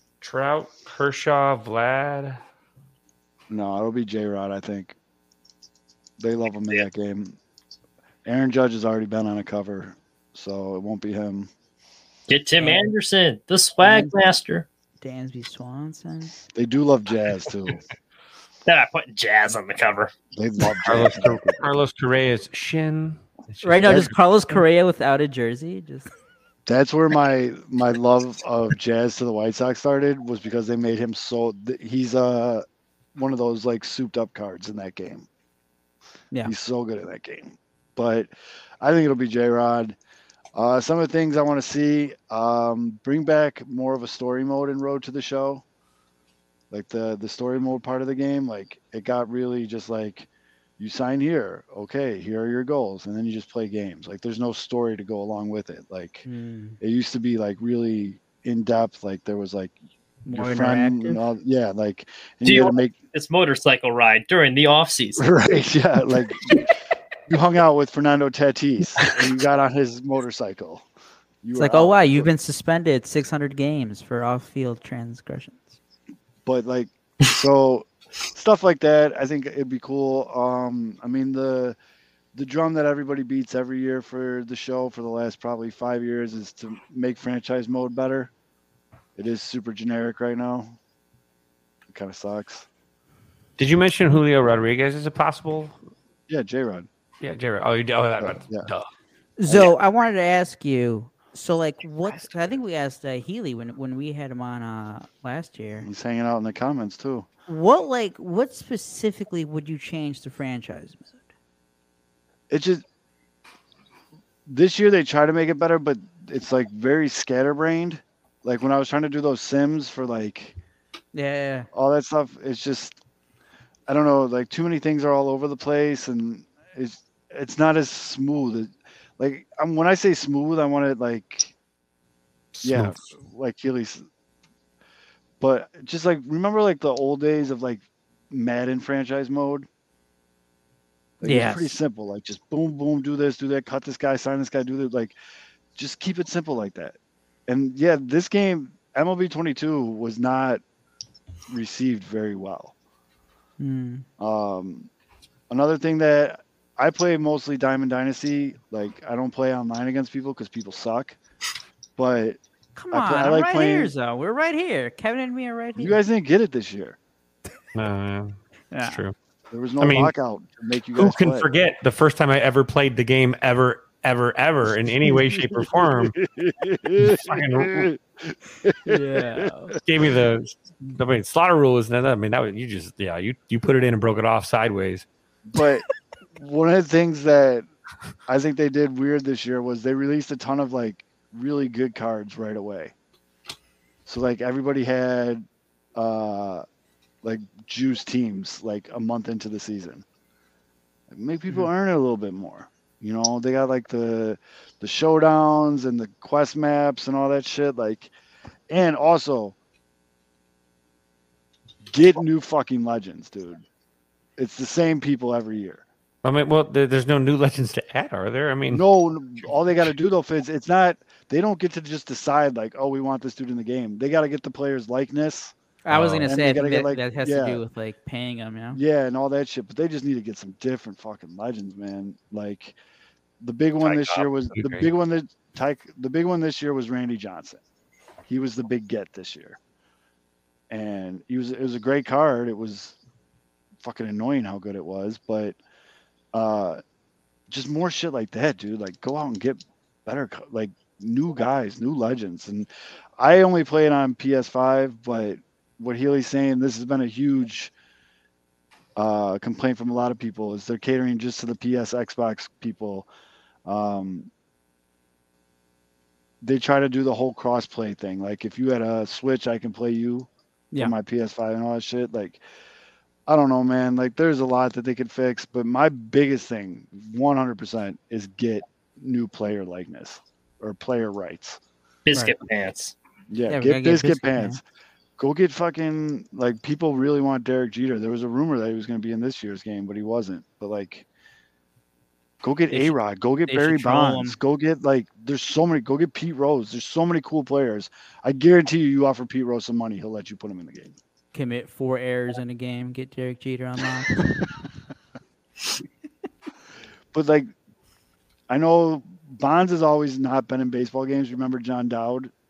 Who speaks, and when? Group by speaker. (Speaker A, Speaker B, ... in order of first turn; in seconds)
Speaker A: 0.2-2.4, 20.8-24.6, 93.6-95.8, 97.2-98.9, 132.5-133.0, 167.7-169.2, 169.8-170.1, 171.0-176.2, 176.9-177.9, 179.8-185.1, 216.2-218.8, 225.9-226.3, 233.8-234.9
Speaker B: 3.5-5.0, 6.2-7.4, 8.2-11.5, 16.5-17.8, 20.3-21.8, 23.9-24.1, 26.7-35.3, 36.4-40.0, 40.5-45.6, 46.7-50.3, 50.8-56.3, 56.8-59.8, 60.3-62.9, 65.2-66.7, 67.3-70.9, 71.4-72.3, 76.5-81.8, 82.3-88.3, 89.2-90.8, 91.9-92.7, 96.3-96.9, 98.2-98.7, 105.8-107.3, 112.5-112.8, 114.5-120.5, 121.7-123.0, 123.9-131.5, 132.6-134.0, 135.4-139.7, 141.2-145.1, 145.8-150.6, 151.5-152.7, 154.2-154.9, 155.5-161.2, 162.0-162.4, 162.9-163.9, 165.8-167.0, 169.5-171.5, 175.1-179.5, 185.5-185.8, 186.4-187.7, 188.3-192.9, 194.1-195.4, 196.0-196.7, 197.2-200.1, 201.1-208.1, 208.7-209.6, 211.9-213.6, 214.4-215.8, 218.7-225.5, 226.2-227.6, 228.7-232.8, 233.4-237.6, 238.3-239.6, 240.7-243.0, 243.8-245.6, 246.3-246.8, 247.5-252.7, 253.2-257.7, 259.0-263.1, 263.7-264.3, 266.4-272.4, 273.3-281.6, 283.3-284.6, 285.2-291.1, 292.4-301.0, 307.1-307.5, 308.5-312.3
Speaker C: 12.3-14.7, 18.7-20.1, 62.5-65.2, 282.1-282.9
Speaker D: 12.6-12.9, 13.8-14.2, 15.0-16.4, 23.6-26.1, 56.2-56.8, 60.3-61.2, 71.5-75.7, 99.4-105.9, 107.5-111.2, 121.1-121.7, 141.2-141.8, 153.6-154.1, 162.8-166.0, 168.7-169.0, 178.8-179.8, 225.8-228.8, 283.5-284.6, 293.5-294.4, 301.3-304.5